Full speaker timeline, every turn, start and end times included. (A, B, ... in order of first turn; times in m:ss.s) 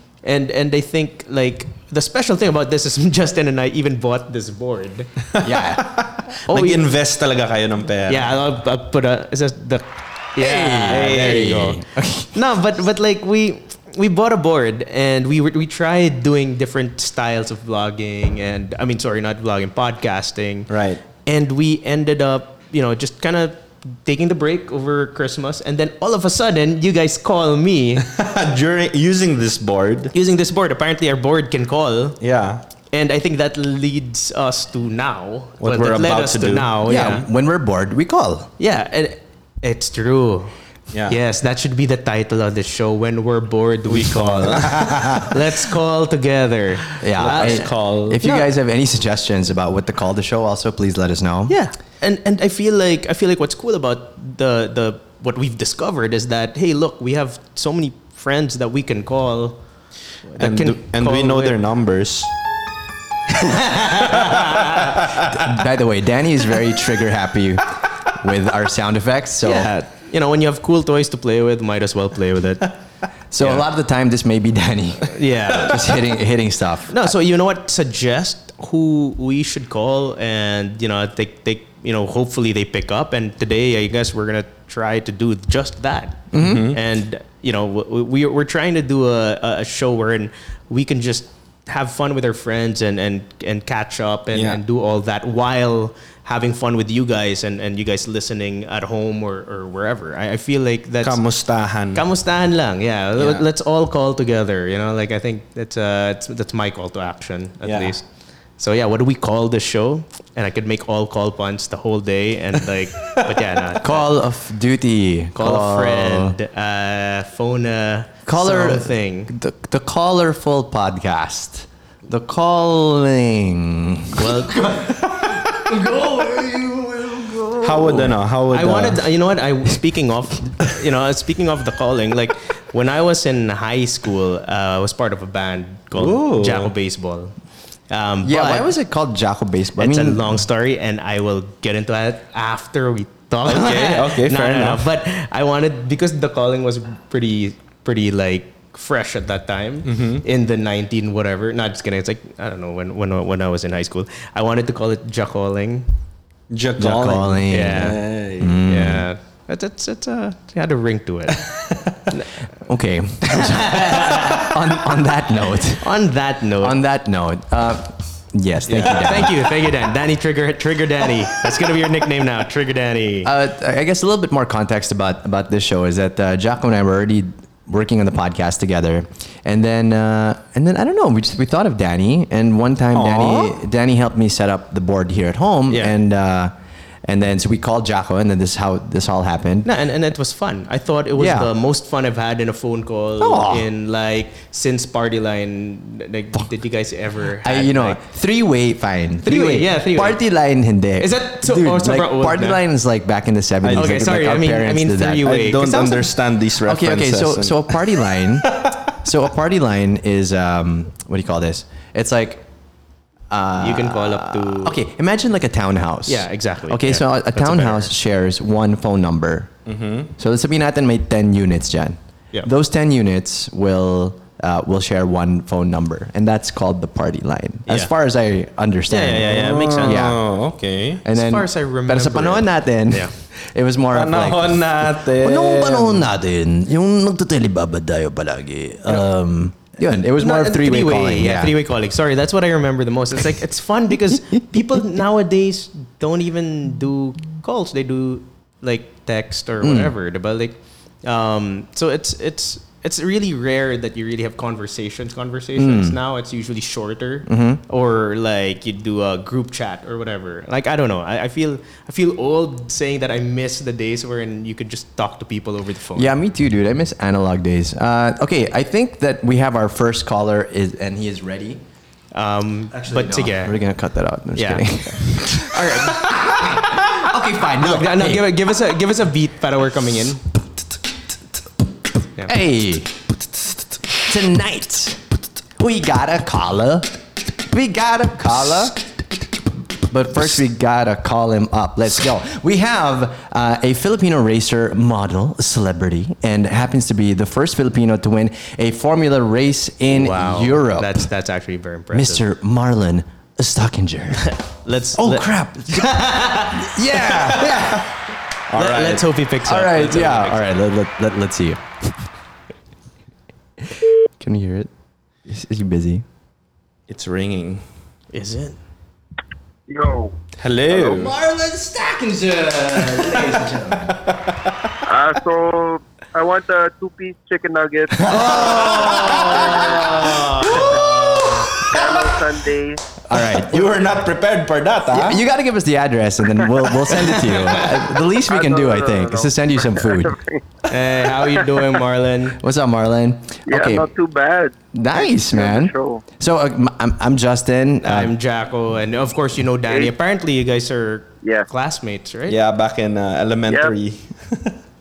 0:00.2-0:05.1 A
0:05.4-0:08.3 B
0:05.4-0:06.0 C
0:06.5-0:06.8 A
0:08.1-0:11.8 A
0:10.4-0:12.3 C
0:10.9-0:11.7 B
0:12.3-0:20.7 A
0:20.7-0:21.0 B
0:21.2-0:28.0 A
0:28.0-0:30.1 B
0:30.1-0:32.2 A
0:32.2-0:32.6 B
0:32.9-0:37.2 A
0:35.6-0:36.7 B
0:36.8-0:38.5 C
0:38.6-0:40.5 A
0:40.9-0:41.2 B
0:41.1-0:48.5 A
0:43.9-0:45.3 B
0:44.9-0:45.2 C
0:47.0-0:51.6 C
0:47.2-0:48.2 B
0:51.5-0:59.6 A
1:00.2-1:01.5 A
1:00.4-1:02.3 B
1:03.4-1:04.9 A
1:05.3-1:09.7 C
1:09.4-1:12.7 A
1:13.3-1:17.1 C
1:15.1-1:15.9 A
1:16.9-1:41.2 A
1:26.3-1:26.7 C
1:26.4-1:26.8 B
1:34.3-1:34.6 B
1:41.0-1:42.0 B
1:41.9-1:48.0 A
1:43.2-1:43.4 B
1:47.6-1:48.0 B
1:48.6-1:54.1 A
1:53.8-1:56.4 C
1:55.4-1:59.3 A
1:58.2-2:08.1 C
2:04.1-2:04.7 A
2:07.6-2:09.0 B
2:08.5-2:17.3 A
2:15.9-2:16.7 B
2:17.9-2:18.7 A
2:18.2-2:20.2 C
2:19.8-2:35.9 A
2:23.4-2:24.9 B
2:29.8-2:30.2 B
2:36.5-2:38.5 B
2:36.8-2:39.1 C
2:37.5-2:38.0 A
2:38.6-2:41.4 A
2:42.6-2:45.8 C
2:43.7-2:44.3 A
2:45.8-2:46.8 A
2:46.6-2:49.5 C
2:48.7-2:53.3 A
2:48.7-2:49.0 B
2:53.2-3:06.5 C
3:02.9-3:03.5 B
3:07.0-3:09.7 C
3:09.6-3:18.0 A
3:11.2-3:11.5 C
3:13.2-3:13.6 C
3:17.4-3:25.3 C
3:19.2-3:20.2 A
3:21.0-3:22.6 A
3:23.6-3:24.2 B
3:23.8-3:26.1 A
3:25.2-3:28.7 B
3:26.6-3:32.4 C
3:33.3-3:39.5 C
3:33.6-3:34.8 A
3:36.0-3:37.9 A
3:39.6-3:40.1 B
3:40.2-3:50.2 C
3:47.7-3:47.9 A
3:48.9-3:50.1 A
3:49.3-3:51.0 B
3:51.0-4:01.6 C
3:51.1-3:53.1 A
3:53.9-3:56.0 B
4:00.2-4:26.1 A
4:09.6-4:09.9 C
4:15.6-4:16.0 C
4:17.2-4:17.6 C
4:26.0-4:31.6 C
4:32.1-4:33.6 A
4:32.7-4:38.3 C
4:34.4-4:36.1 A
4:37.6-4:40.2 A
4:42.2-4:43.0 C
4:44.0-4:45.0 C
4:45.6-4:48.8 C
4:49.9-5:01.1 C
4:59.9-5:02.2 A
5:01.9-5:04.3 C
5:04.2-5:06.7 A
5:05.0-5:07.9 C
5:07.0-5:07.9 B
5:08.5-5:09.0 B
5:08.5-5:10.4 A
5:09.4-5:11.9 C
5:14.2-5:14.7 C
5:15.2-5:16.0 C
5:16.9-5:17.6 B
5:18.1-5:18.6 A
5:19.7-5:20.2 D
5:20.4-5:21.1 B
5:20.7-5:20.9 D
5:20.8-5:24.0 C
5:24.8-5:29.8 D
5:28.0-5:31.9 C
5:28.3-5:31.5 A
5:30.6-5:31.2 B
5:31.5-5:32.8 D
5:33.1-5:33.7 C
5:33.1-5:35.2 B
5:34.9-5:40.1 C
5:37.0-5:37.6 A
5:38.3-5:40.4 D
5:40.7-5:42.4 A
5:42.4-5:43.9 C
5:43.5-5:46.0 D
5:44.7-5:48.1 C
5:47.8-5:52.4 A
5:49.7-5:49.9 D
5:52.3-5:54.6 B
5:53.5-5:53.7 D